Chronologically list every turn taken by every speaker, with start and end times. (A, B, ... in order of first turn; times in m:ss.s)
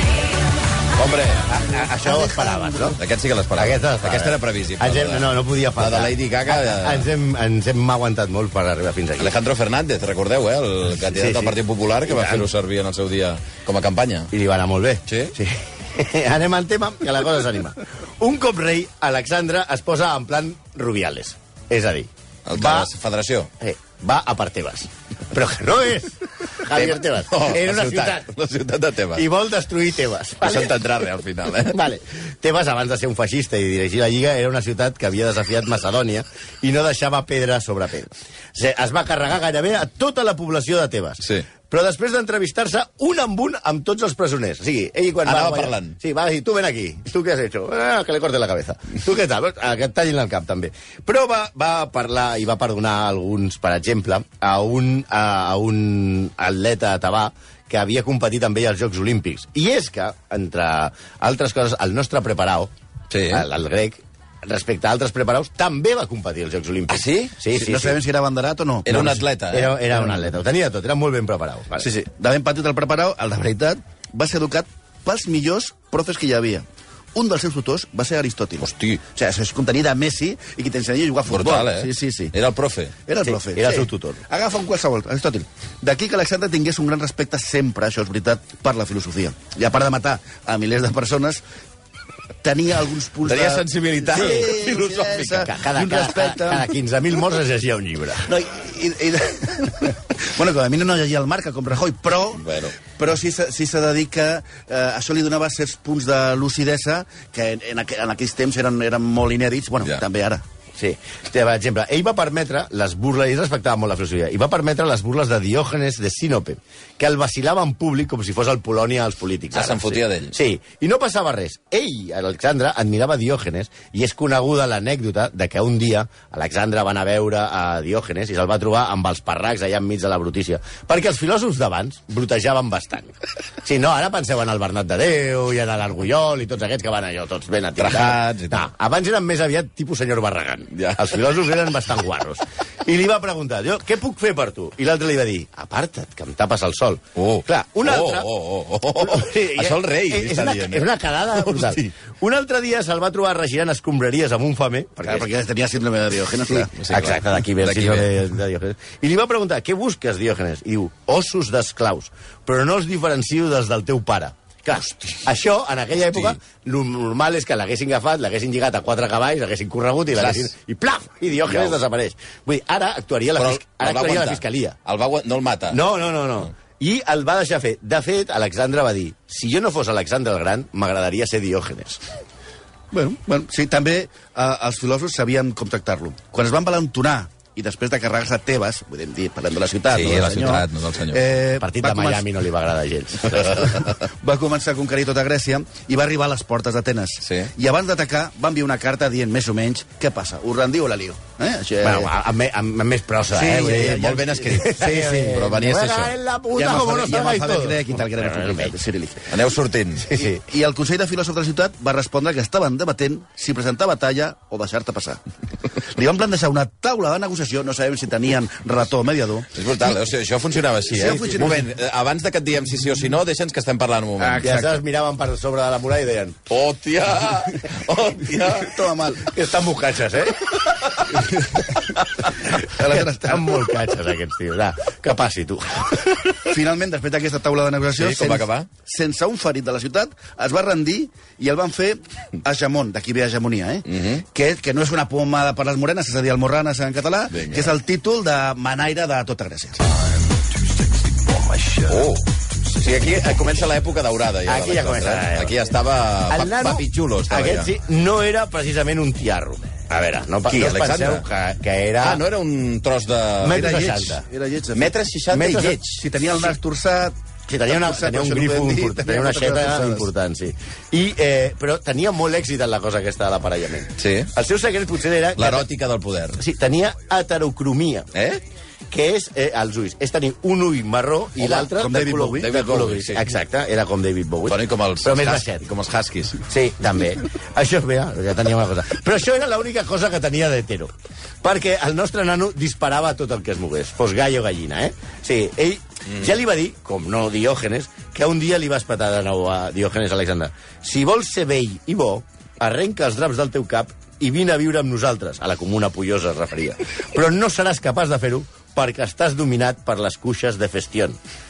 0:01.0-0:01.4 A
0:01.1-0:03.0 B
0:02.0-0:03.0 C
0:03.0-0:07.1 A
0:03.6-0:09.3 B
0:09.2-0:14.3 A
0:11.0-0:11.6 B
0:12.1-0:12.5 B
0:14.3-0:22.9 B
0:15.1-0:15.3 A
0:22.4-0:23.5 A
0:23.6-0:28.3 B
0:26.7-0:29.2 A
0:29.1-0:30.7 B
0:30.4-0:31.8 A
0:31.7-1:02.7 B
0:45.2-0:46.0 A
1:03.1-1:03.4 A
1:03.3-1:08.0 B
1:06.9-1:07.3 A
1:07.5-1:09.2 C
1:08.8-1:10.2 A
1:09.5-1:11.9 B
1:11.8-1:22.3 C
1:18.6-1:19.0 A
1:21.3-1:22.9 A
1:23.1-1:31.4 C
1:23.2-1:24.2 B
1:32.4-1:36.7 C
1:33.2-1:35.5 A
1:34.1-1:34.6 B
1:35.4-1:38.3 B
1:38.2-1:50.4 C
1:42.4-1:42.7 A
1:50.8-2:28.3 B
1:59.5-2:00.3 A
2:17.8-2:18.6 A
2:20.7-2:21.2 A
2:27.2-2:31.9 A
2:29.0-2:35.3 B
2:35.0-2:36.7 C
2:36.6-2:54.8 B
2:36.8-2:38.0 A
2:50.2-2:50.5 A
2:51.5-2:51.8 A
2:53.4-2:55.8 A
2:55.7-3:02.0 B
3:02.9-3:12.3 C
3:09.9-3:11.3 A
3:11.6-3:13.9 B
3:13.9-3:22.1 C
3:17.2-3:17.5 A
3:21.8-3:28.7 B
3:23.3-3:25.4 C
3:23.4-3:26.1 A
3:26.6-3:29.4 C
3:29.3-3:30.1 A
3:30.1-3:30.4 B
3:30.1-3:35.2 C
3:35.8-3:39.5 C
3:39.5-3:44.4 A
3:40.9-3:41.7 C
3:44.2-3:44.8 C
3:44.4-3:46.4 B
3:46.5-3:48.8 A
3:48.5-3:49.3 C
3:49.2-3:50.6 B
3:52.6-3:53.6 C
3:52.6-3:56.5 B
3:56.5-4:09.8 C
3:58.0-3:58.7 A
4:03.9-4:04.2 A
4:07.3-4:07.7 A
4:11.8-4:17.7 A
4:14.5-4:15.6 B
4:16.3-4:22.2 B
4:20.5-4:21.3 A
4:22.0-4:23.7 A
4:23.4-4:24.2 B
4:23.5-4:30.1 C
4:24.7-4:26.0 A
4:25.3-4:25.8 B
4:27.5-4:35.7 B
4:34.0-4:34.3 A
4:35.4-4:36.4 A
4:36.4-4:38.1 B
4:38.1-4:38.4 A
4:38.9-4:45.6 B
4:41.4-4:42.6 C
4:42.2-4:43.2 A
4:44.5-4:46.4 A
4:46.5-4:50.9 B
4:51.4-5:11.2 B